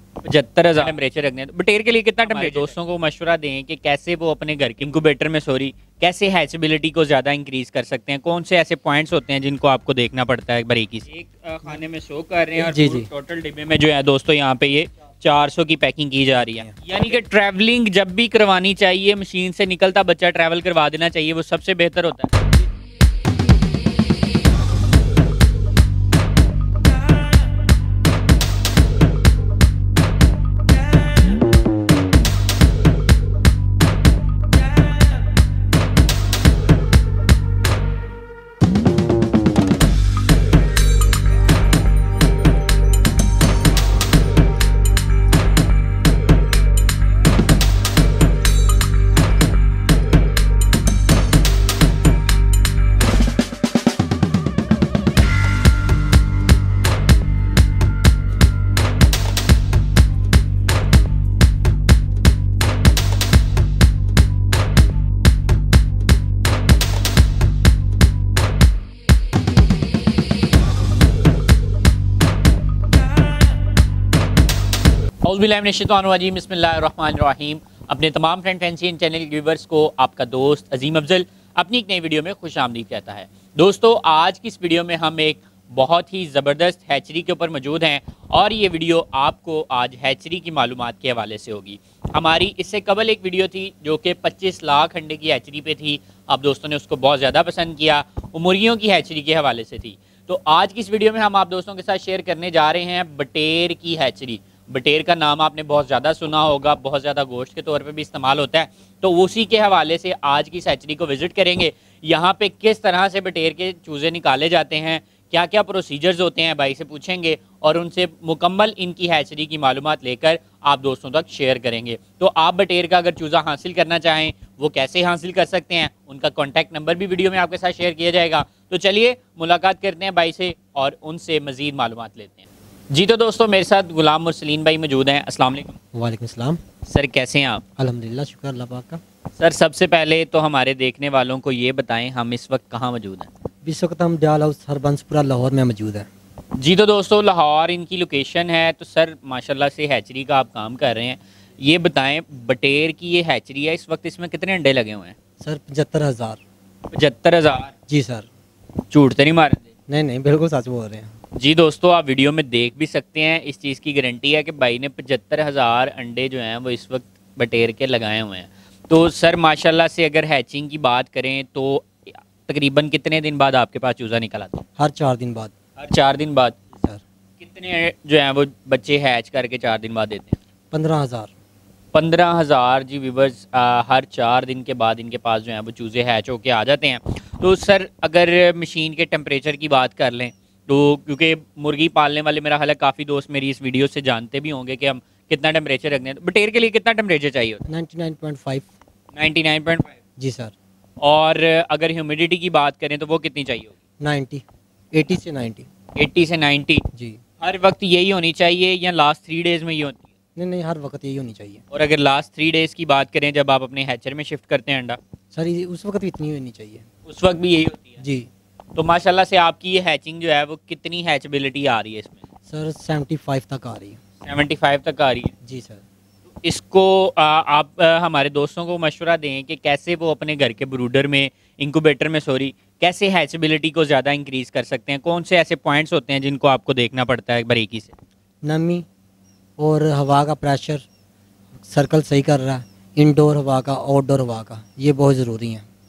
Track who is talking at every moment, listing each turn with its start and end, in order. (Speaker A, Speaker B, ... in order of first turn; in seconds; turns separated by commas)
Speaker A: 0.2-22.3, Speaker B: 12.6-13.1, Speaker B: 16.4-16.7, Speaker A: 75.2-135.8, Speaker B: 135.9-136.6, Speaker A: 136.8-137.6, Speaker B: 137.8-139.0, Speaker A: 139.4-143.3, Speaker B: 143.6-146.1, Speaker A: 146.6-155.1, Speaker B: 155.4-156.4, Speaker A: 156.9-157.7, Speaker B: 157.9-158.3, Speaker A: 158.9-159.7, Speaker B: 159.9-161.1, Speaker A: 161.3-171.9, Speaker A: 172.5-174.6, Speaker B: 174.8-175.5, Speaker A: 175.8-176.6, Speaker B: 176.7-177.0, Speaker A: 177.4-180.3, Speaker B: 180.7-181.3, Speaker A: 181.9-197.6, Speaker B: 197.7-198.7, Speaker A: 199.1-199.9, Speaker B: 200.2-200.5, Speaker A: 201.0-203.7, Speaker B: 204.0-205.7, Speaker A: 205.9-206.8, Speaker B: 206.9-207.2, Speaker A: 207.4-210.0, Speaker B: 210.3-211.6, Speaker A: 211.7-215.0, Speaker B: 215.3-216.8, Speaker A: 217.1-217.9, Speaker B: 218.0-218.3, Speaker A: 218.7-222.2, Speaker B: 222.5-224.0, Speaker A: 224.2-225.3, Speaker B: 225.4-225.8, Speaker A: 226.4-237.9, Speaker B: 238.4-238.8, Speaker B: 239.6-240.8, Speaker B: 241.6-245.7